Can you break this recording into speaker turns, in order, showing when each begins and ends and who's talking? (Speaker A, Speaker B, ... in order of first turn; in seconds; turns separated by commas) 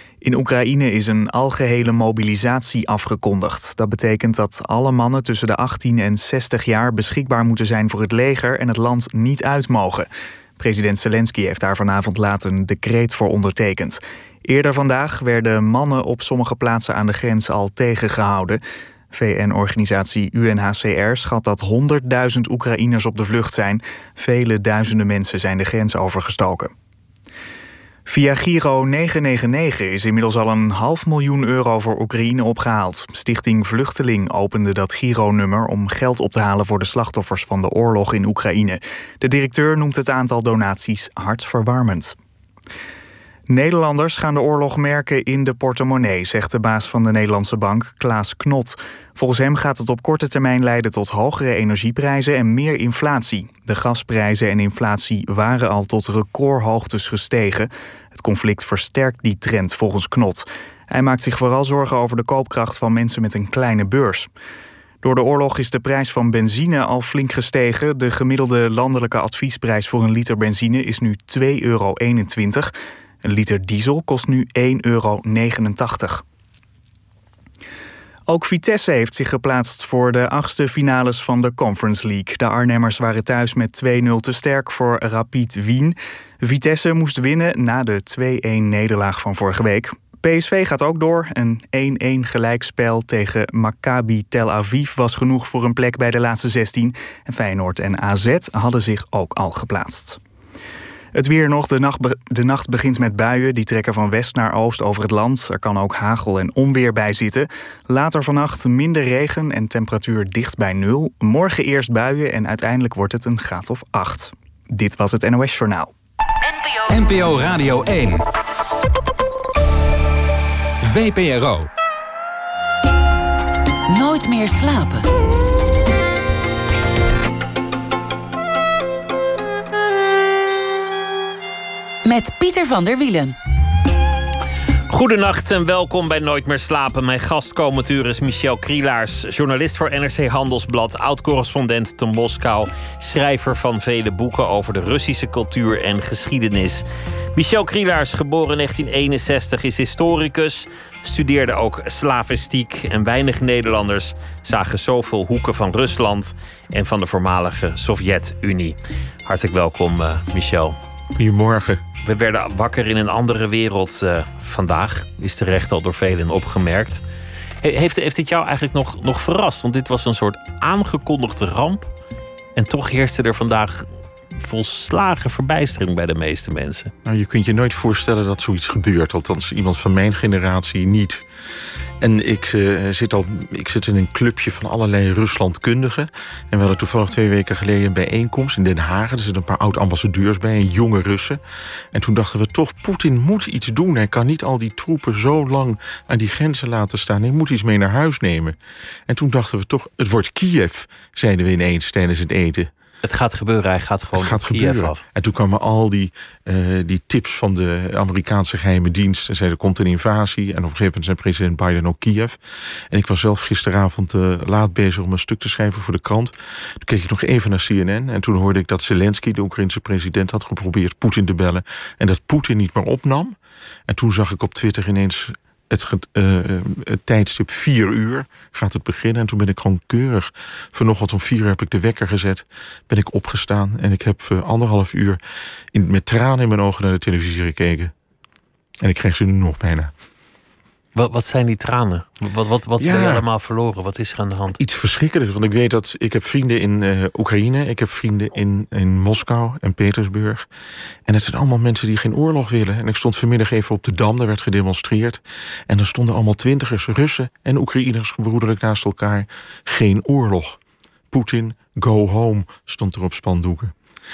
Speaker A: 0.2-18.6, Speaker A: 19.1-26.7, Speaker A: 28.1-42.2, Speaker A: 43.5-64.3, Speaker A: 65.0-72.7, Speaker A: 73.2-76.2, Speaker A: 78.3-100.2, Speaker A: 101.1-115.9, Speaker B: 116.9-118.2, Speaker B: 120.9-121.7, Speaker C: 123.9-125.1, Speaker C: 132.0-133.4, Speaker D: 134.9-160.8, Speaker E: 161.1-161.8, Speaker D: 162.0-167.0, Speaker D: 167.6-171.9, Speaker D: 172.6-176.9, Speaker E: 177.1-181.2, Speaker E: 182.0-191.4, Speaker E: 191.9-198.6, Speaker E: 199.1-202.7, Speaker D: 203.0-205.0, Speaker E: 204.1-212.4, Speaker E: 212.9-223.4, Speaker E: 223.9-235.2, Speaker E: 235.7-237.9, Speaker E: 238.8-239.9, Speaker D: 240.9-244.6, Speaker E: 242.8-243.2, Speaker E: 244.6-250.5, Speaker E: 251.1-260.6, Speaker E: 261.1-263.7